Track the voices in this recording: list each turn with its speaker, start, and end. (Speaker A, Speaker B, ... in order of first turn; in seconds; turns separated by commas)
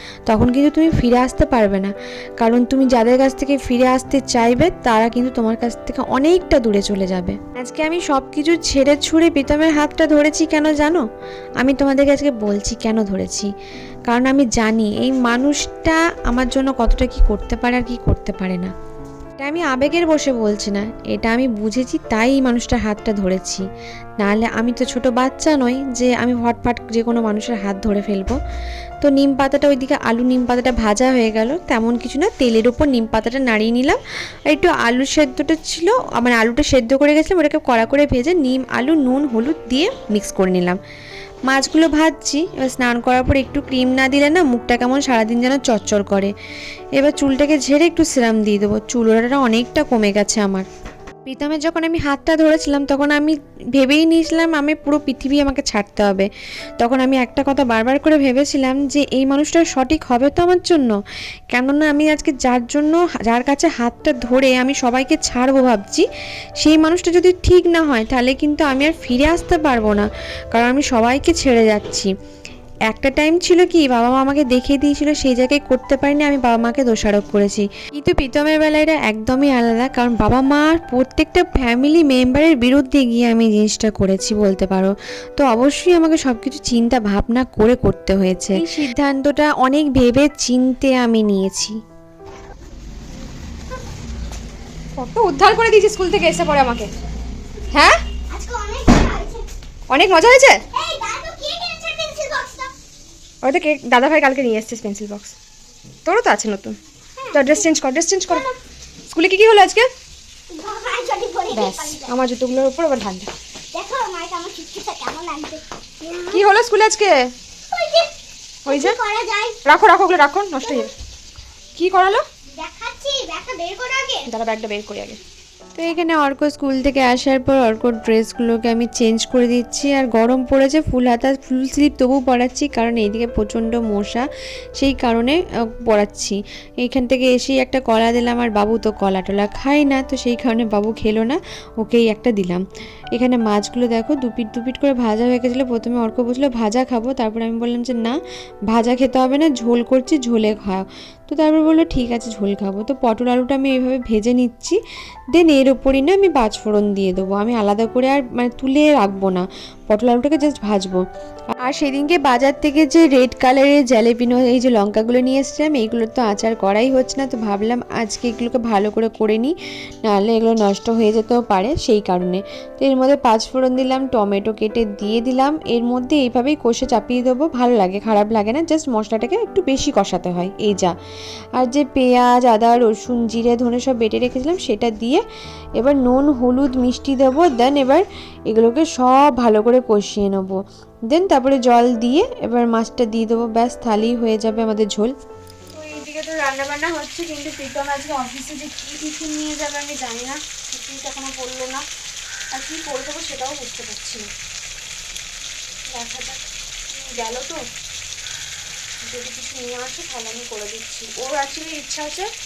Speaker A: 0.3-11.0, Speaker A: 11.6-13.5, Speaker A: 14.1-18.7, Speaker A: 19.4-23.6, Speaker A: 24.2-28.4, Speaker A: 29.0-40.8, Speaker A: 41.5-46.3, Speaker A: 47.0-50.7, Speaker A: 51.2-60.9, Speaker A: 61.5-66.1, Speaker A: 66.6-72.1, Speaker A: 72.9-91.8, Speaker B: 88.5-88.9, Speaker B: 95.0-96.9, Speaker B: 97.7-98.0, Speaker C: 98.3-99.5, Speaker B: 99.9-100.6, Speaker C: 100.7-102.7, Speaker B: 103.4-105.3, Speaker B: 106.0-106.8, Speaker C: 107.2-107.7, Speaker B: 107.3-108.4, Speaker C: 108.3-108.6, Speaker B: 109.1-109.9, Speaker C: 110.5-112.1, Speaker B: 111.5-113.3, Speaker C: 113.7-116.5, Speaker B: 116.3-117.3, Speaker C: 117.7-119.6, Speaker B: 118.7-119.0, Speaker B: 119.6-120.9, Speaker C: 120.6-120.9, Speaker B: 121.8-122.2, Speaker C: 122.5-124.3, Speaker B: 124.3-125.2, Speaker A: 125.8-134.2, Speaker A: 134.8-148.2, Speaker A: 148.7-154.8, Speaker A: 155.3-161.0, Speaker A: 161.6-180.9, Speaker A: 181.6-185.2, Speaker A: 185.8-195.1, Speaker B: 195.7-201.8, Speaker B: 202.5-204.3, Speaker B: 205.9-207.6, Speaker B: 209.0-212.3